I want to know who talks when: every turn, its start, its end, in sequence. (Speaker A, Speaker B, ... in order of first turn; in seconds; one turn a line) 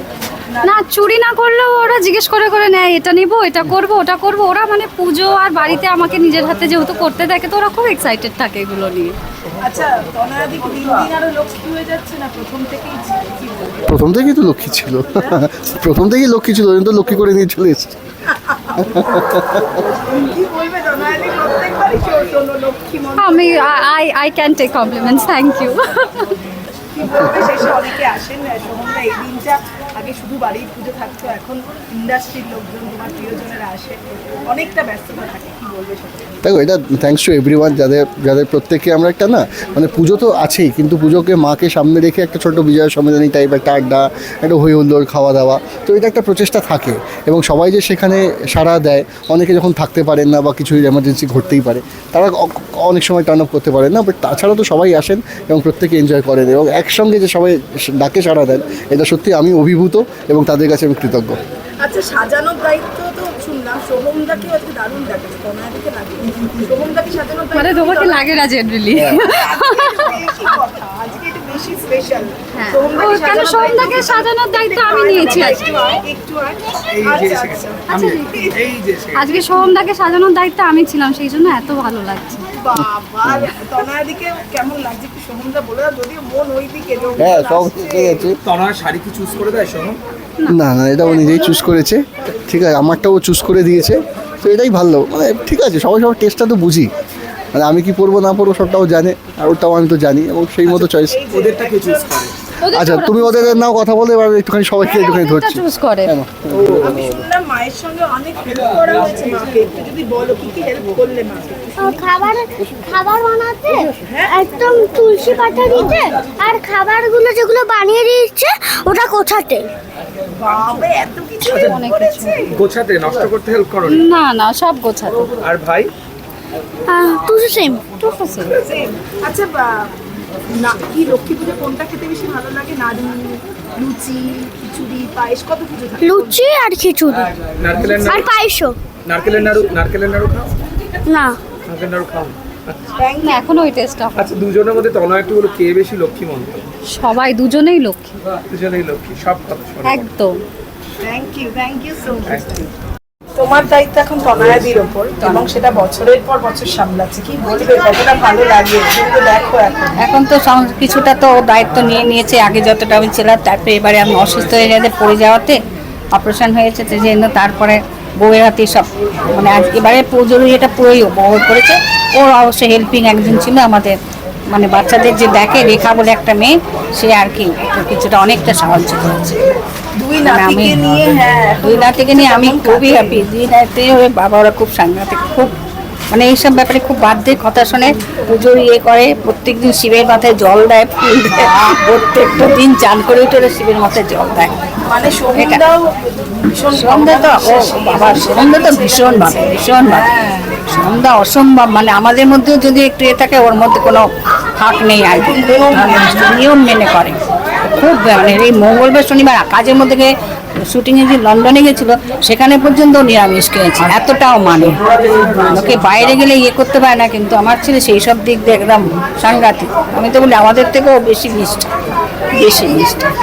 Speaker A: 0.5-0.8
Speaker B: 0.6-5.8
Speaker C: 5.8-6.6
Speaker B: 6.6-9.2
Speaker A: 9.6-13.8
Speaker D: 13.9-18.0
Speaker A: 18.3-18.8
Speaker D: 18.8-19.8
Speaker A: 20.1-23.9
Speaker B: 23.2-26.3
Speaker A: 26.9-36.3
Speaker D: 36.4-61.4
Speaker A: 61.8-68.4
Speaker B: 67.5-70.1
Speaker A: 68.9-78.6
Speaker B: 72.6-75.8
Speaker E: 76.9-79.4
Speaker B: 77.9-78.4
Speaker B: 79.1-82.5
Speaker A: 82.5-88.3
Speaker D: 87.2-88.4
Speaker E: 88.4-90.0
Speaker D: 90.5-96.9
Speaker D: 97.5-101.2
Speaker E: 100.7-102.3
Speaker A: 101.0-102.2
Speaker B: 102.6-103.6
Speaker D: 102.7-107.2
Speaker A: 104.8-105.2
Speaker B: 104.9-106.1
Speaker E: 106.5-106.9
Speaker A: 106.8-112.4
Speaker F: 111.8-119.7
Speaker A: 114.0-114.4
Speaker A: 120.4-122.5
Speaker E: 121.4-121.8
Speaker B: 121.7-122.4
Speaker E: 122.5-124.1
Speaker B: 123.9-125.3
Speaker E: 125.4-125.9
Speaker F: 126.9-128.2
Speaker B: 128.1-128.5
Speaker A: 128.4-129.9
Speaker A: 130.5-136.4
Speaker F: 136.0-137.3
Speaker E: 137.6-138.4
Speaker F: 138.1-138.8
Speaker E: 139.1-140.5
Speaker F: 141.1-141.4
Speaker E: 141.7-142.9
Speaker A: 142.9-143.6
Speaker B: 143.2-144.3
Speaker E: 144.1-146.5
Speaker B: 146.9-148.2
Speaker E: 148.5-150.1
Speaker B: 149.8-150.4
Speaker A: 151.0-152.7
Speaker E: 152.2-152.5
Speaker A: 153.4-159.9
Speaker C: 155.2-155.5
Speaker C: 160.0-165.6
Speaker C: 166.1-173.9
Speaker C: 174.5-179.4
Speaker A: 180.0-183.2
Speaker C: 180.2-180.8
Speaker C: 181.6-185.5
Speaker C: 186.1-194.5
Speaker A: 194.8-200.6
Speaker C: 195.3-195.6
Speaker C: 196.7-200.1
Speaker C: 200.7-204.0
Speaker C: 204.6-207.2
Speaker A: 205.1-206.3
Speaker C: 207.7-210.1
Speaker C: 210.7-221.7
Speaker C: 222.3-223.1